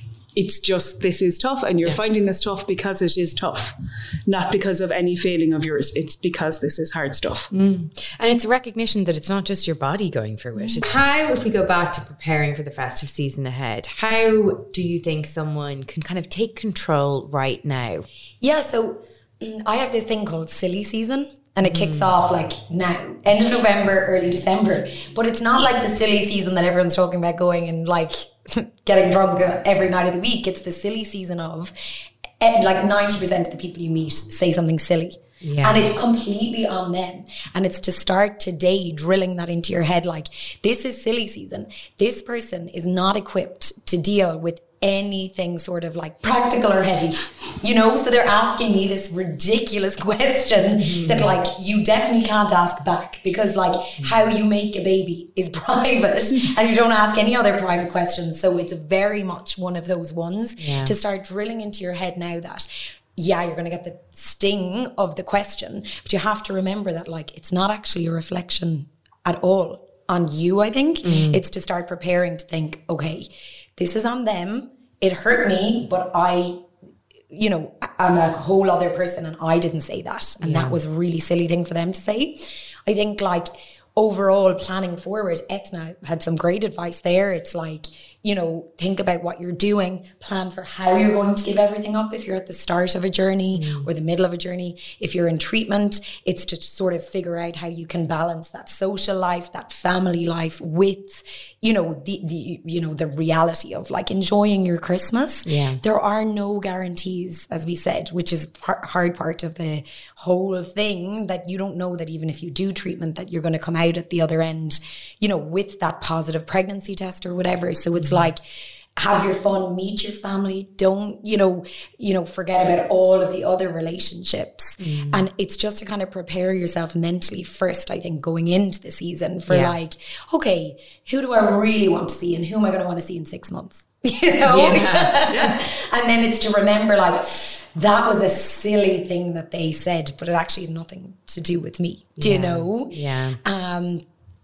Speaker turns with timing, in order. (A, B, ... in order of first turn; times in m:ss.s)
0:00.3-0:07.5 A
0:07.5-0:18.1 B
0:18.4-0:31.7 C
0:21.6-0:22.1 B
0:32.4-1:16.6 C
0:35.4-0:35.9 B
0:50.8-0:51.4 B
0:54.0-0:54.3 B
1:00.6-1:01.0 B
1:11.0-1:11.4 B
1:17.3-1:58.4 C
1:20.4-1:20.8 B
1:33.6-1:33.9 B
1:45.5-1:45.8 B
1:58.0-1:58.3 B
1:59.0-2:24.0 C
2:04.8-2:05.3 B
2:09.5-2:09.8 B
2:14.4-2:15.2 B
2:15.3-2:15.6 A
2:22.2-2:23.4 B